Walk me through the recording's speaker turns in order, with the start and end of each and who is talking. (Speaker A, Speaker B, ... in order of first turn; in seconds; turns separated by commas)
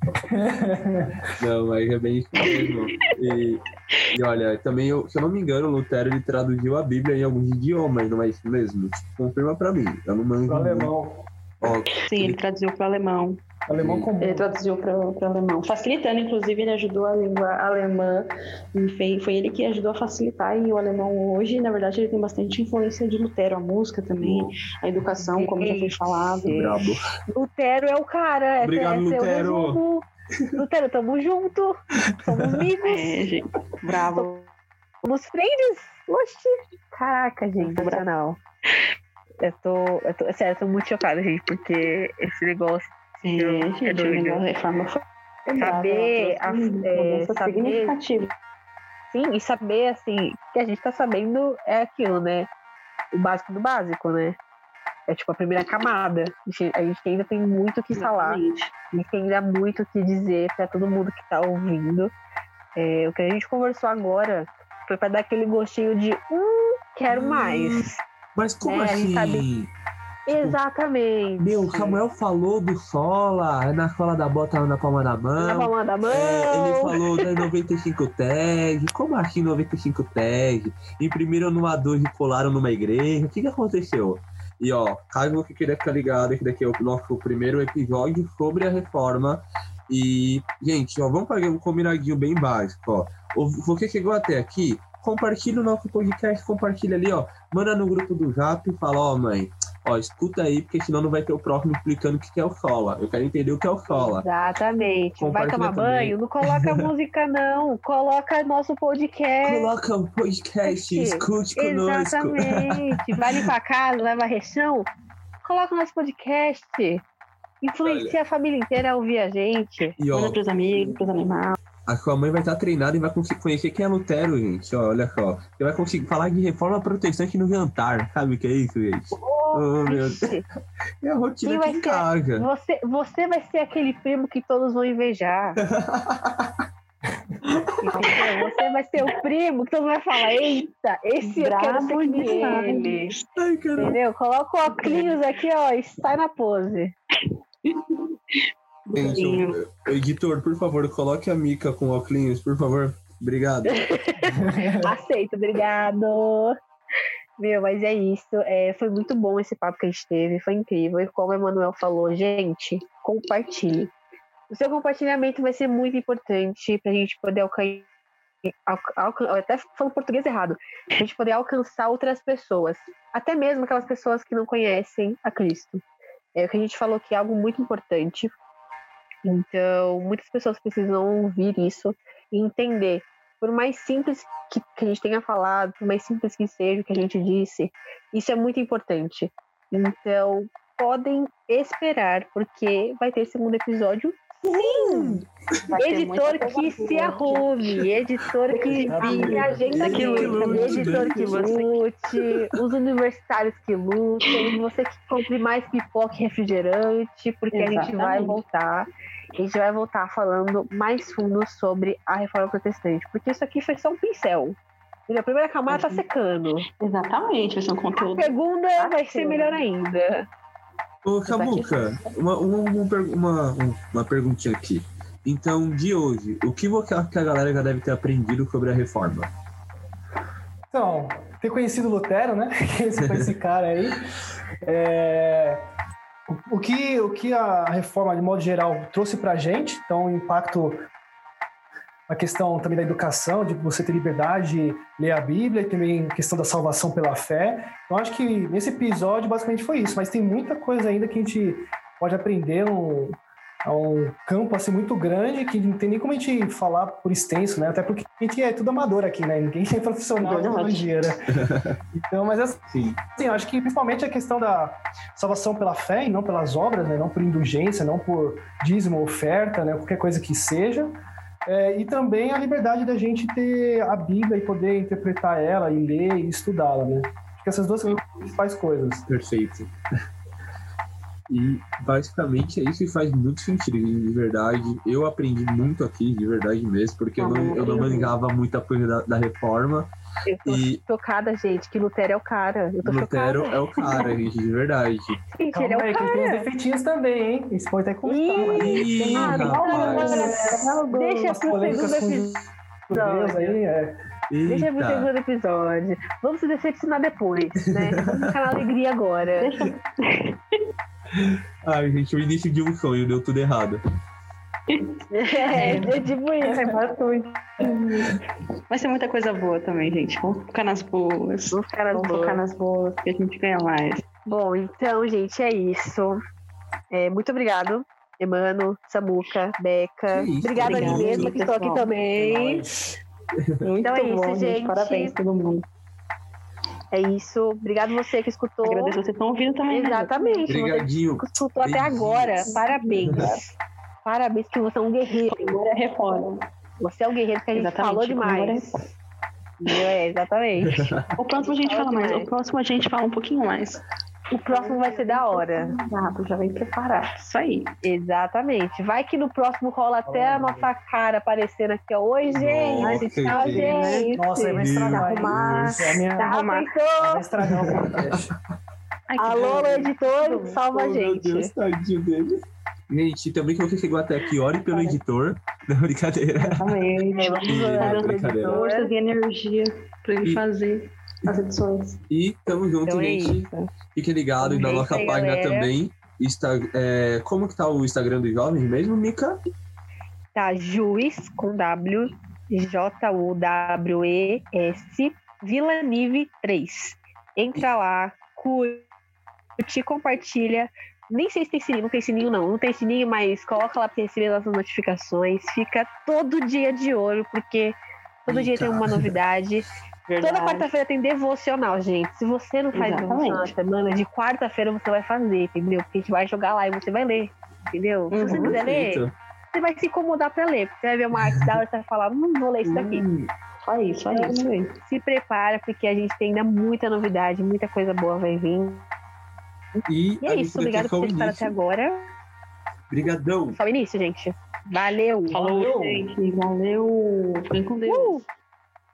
Speaker A: 0.3-1.2, Speaker B: 1.4-10.9, Speaker C: 2.4-2.9, Speaker A: 10.5-11.2, Speaker B: 11.6-12.4, Speaker C: 12.0-13.4, Speaker A: 13.7-14.5, Speaker B: 13.7-14.1, Speaker C: 14.2-26.7, Speaker B: 24.2-24.5, Speaker D: 25.2-26.8, Speaker B: 26.4-27.1, Speaker D: 27.3-33.3, Speaker B: 28.6-29.8, Speaker C: 32.8-34.3, Speaker D: 34.1-34.5, Speaker D: 35.0-38.4, Speaker C: 37.6-38.0, Speaker D: 39.4-44.4, Speaker C: 43.2-48.3, Speaker D: 45.5-48.0, Speaker D: 49.1-52.5, Speaker D: 53.1-54.4, Speaker D: 55.1-58.4, Speaker C: 57.9-58.7, Speaker D: 58.9-62.1, Speaker D: 62.8-68.0, Speaker B: 67.1-69.7, Speaker D: 68.6-69.4, Speaker B: 70.2-70.6, Speaker D: 70.3-72.0, Speaker B: 71.4-104.3, Speaker D: 75.4-77.1, Speaker D: 103.9-109.7, Speaker B: 105.2-106.8, Speaker B: 109.4-113.5, Speaker D: 110.6-114.9, Speaker D: 115.4-117.0, Speaker D: 117.6-120.0, Speaker B: 117.8-118.2, Speaker B: 120.0-120.4, Speaker C: 120.1-121.6, Speaker B: 121.9-130.3, Speaker D: 129.2-130.4, Speaker B: 131.0-132.5, Speaker D: 131.4-135.6, Speaker B: 135.6-136.5, Speaker D: 137.8-143.1, Speaker C: 138.0-138.2, Speaker C: 141.2-143.1, Speaker B: 143.3-144.0, Speaker D: 143.8-146.9, Speaker C: 144.7-145.2, Speaker C: 147.7-148.1, Speaker C: 148.8-149.6, Speaker B: 148.9-153.8, Speaker D: 153.7-156.6, Speaker A: 154.3-154.9, Speaker D: 157.4-163.9, Speaker D: 164.5-167.9, Speaker D: 168.4-175.8, Speaker D: 176.3-178.3, Speaker D: 179.2-195.2, Speaker C: 194.4-197.6, Speaker D: 195.8-208.8, Speaker C: 198.5-201.7, Speaker A: 198.9-200.2, Speaker B: 199.0-201.5, Speaker C: 207.5-208.4, Speaker D: 209.4-216.7, Speaker C: 215.7-216.0, Speaker C: 216.8-219.6, Speaker D: 218.0-220.2, Speaker B: 221.0-229.3, Speaker C: 221.3-222.1, Speaker A: 230.7-234.1, Speaker B: 233.0-233.3, Speaker A: 234.6-235.6, Speaker A: 236.3-240.8, Speaker A: 242.1-261.4, Speaker C: 260.2-260.9, Speaker B: 261.3-261.7, Speaker A: 261.9-279.1, Speaker B: 262.7-263.0, Speaker B: 279.1-279.7, Speaker B: 281.3-289.9, Speaker C: 287.2-288.1, Speaker D: 290.3-293.5, Speaker B: 290.4-290.8, Speaker B: 292.8-295.2, Speaker D: 295.3-296.5, Speaker A: 295.5-300.7, Speaker D: 298.0-302.3, Speaker C: 298.4-302.0, Speaker B: 298.5-300.3, Speaker A: 301.2-303.9, Speaker D: 302.9-303.6, Speaker B: 304.3-305.1, Speaker D: 304.5-309.5, Speaker B: 307.8-308.2, Speaker C: 309.4-310.4, Speaker B: 311.1-313.8, Speaker C: 314.7-324.0, Speaker D: 315.1-316.8, Speaker D: 321.5-322.4, Speaker D: 324.2-326.2, Speaker D: 326.9-332.6, Speaker B: 330.1-331.3, Speaker C: 330.6-331.9, Speaker A: 332.2-332.7, Speaker C: 333.6-335.6, Speaker D: 333.8-335.1, Speaker D: 336.9-339.0, Speaker C: 338.6-340.5, Speaker D: 339.7-345.6, Speaker B: 340.5-342.6, Speaker C: 342.5-343.4, Speaker C: 345.3-346.5, Speaker D: 346.8-348.8, Speaker C: 347.5-348.7, Speaker D: 349.6-350.9, Speaker B: 350.7-351.0, Speaker C: 351.1-353.8, Speaker D: 351.6-352.3, Speaker D: 354.3-355.7, Speaker C: 354.5-357.8, Speaker D: 357.8-365.1, Speaker A: 360.1-360.7, Speaker B: 362.3-364.0, Speaker C: 362.8-364.1, Speaker A: 364.1-366.3, Speaker B: 364.5-365.8, Speaker C: 364.9-366.7, Speaker D: 366.2-367.3, Speaker A: 367.0-368.3, Speaker B: 367.5-368.0, Speaker C: 369.1-370.6, Speaker D: 369.2-371.5, Speaker B: 370.7-376.8, Speaker C: 374.7-375.0, Speaker C: 376.4-382.0, Speaker D: 377.1-378.9, Speaker B: 377.4-378.5, Speaker B: 382.1-389.4, Speaker D: 382.9-383.7, Speaker D: 384.4-385.7, Speaker C: 384.6-385.1, Speaker D: 390.3-398.9, Speaker D: 399.6-409.7, Speaker B: 408.3-409.1, Speaker C: 410.1-410.7, Speaker D: 410.2-423.0, Speaker C: 412.7-413.5, Speaker C: 418.1-418.6, Speaker B: 418.2-419.1, Speaker B: 422.6-423.3, Speaker C: 423.6-424.7, Speaker D: 424.1-428.9, Speaker B: 429.9-431.5, Speaker D: 430.2-432.1, Speaker B: 432.9-433.6, Speaker D: 433.5-435.4, Speaker C: 435.3-438.2, Speaker A: 435.3-436.1, Speaker D: 437.9-438.2